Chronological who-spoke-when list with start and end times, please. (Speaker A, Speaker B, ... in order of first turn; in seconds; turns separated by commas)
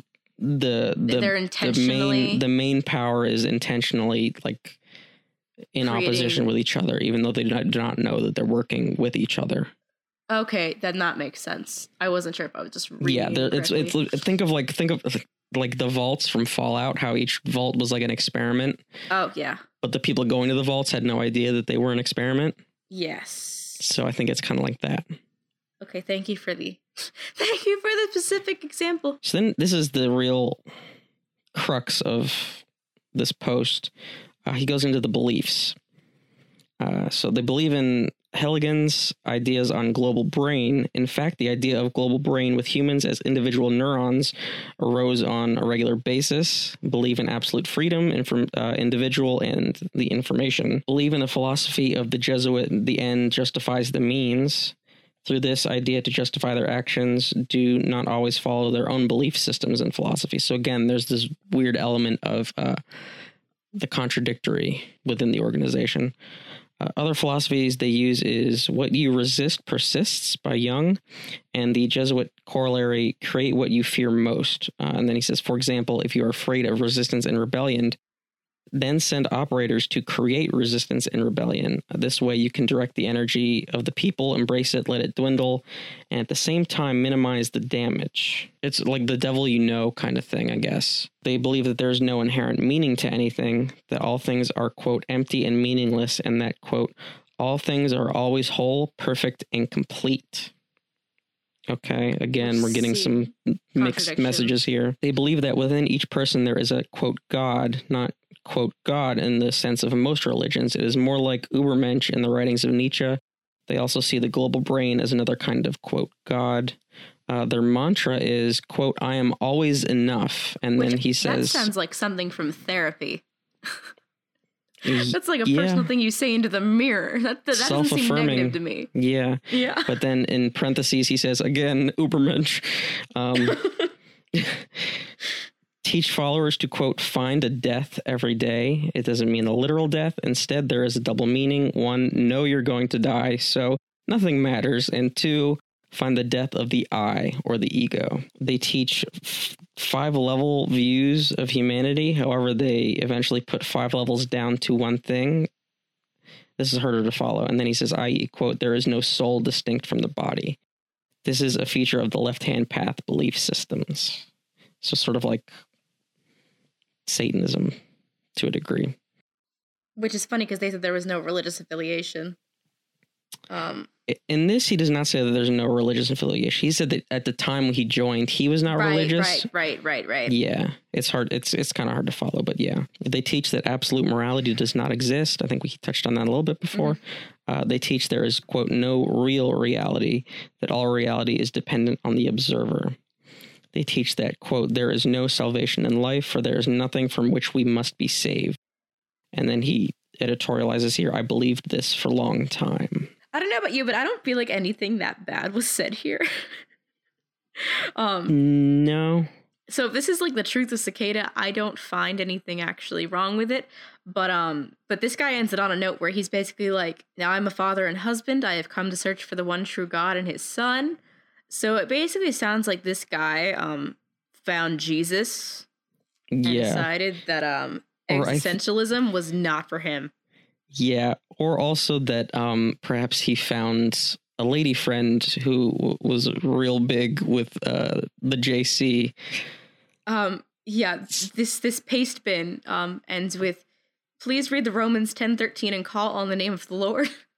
Speaker A: 0.4-4.8, Speaker B: 1.1-2.4, Speaker A: 5.7-9.7, Speaker B: 5.8-6.5, Speaker B: 10.3-13.9, Speaker A: 13.0-18.8, Speaker B: 19.1-19.6, Speaker A: 19.8-22.6, Speaker B: 22.9-23.8, Speaker A: 23.8-25.1, Speaker B: 25.8-29.2, Speaker A: 29.2-30.6, Speaker A: 31.5-33.9, Speaker A: 34.5-35.8, Speaker A: 36.8-62.8, Speaker A: 63.7-66.1, Speaker A: 66.8-71.0, Speaker A: 71.5-78.0, Speaker A: 78.7-100.5, Speaker A: 101.7-116.8, Speaker B: 102.4-104.5, Speaker A: 117.3-121.7, Speaker B: 120.8-123.9, Speaker A: 124.8-125.9, Speaker B: 124.9-128.9, Speaker A: 127.5-133.6, Speaker B: 129.5-129.9, Speaker B: 133.4-133.9, Speaker A: 134.3-135.1, Speaker A: 135.8-155.5, Speaker A: 156.6-160.6, Speaker A: 161.2-164.3, Speaker A: 164.8-165.5, Speaker A: 167.1-167.8, Speaker A: 168.4-169.0, Speaker B: 170.0-172.4, Speaker B: 173.5-173.9, Speaker A: 174.1-179.5, Speaker B: 178.7-180.4, Speaker A: 180.3-193.0, Speaker A: 193.7-198.6, Speaker A: 199.3-203.1, Speaker B: 203.3-206.3, Speaker B: 207.6-208.4, Speaker A: 208.3-209.3, Speaker B: 209.7-225.7, Speaker A: 226.3-226.9, Speaker B: 226.4-230.1, Speaker A: 228.1-228.6, Speaker A: 230.7-239.2, Speaker B: 240.1-243.7, Speaker B: 244.2-247.1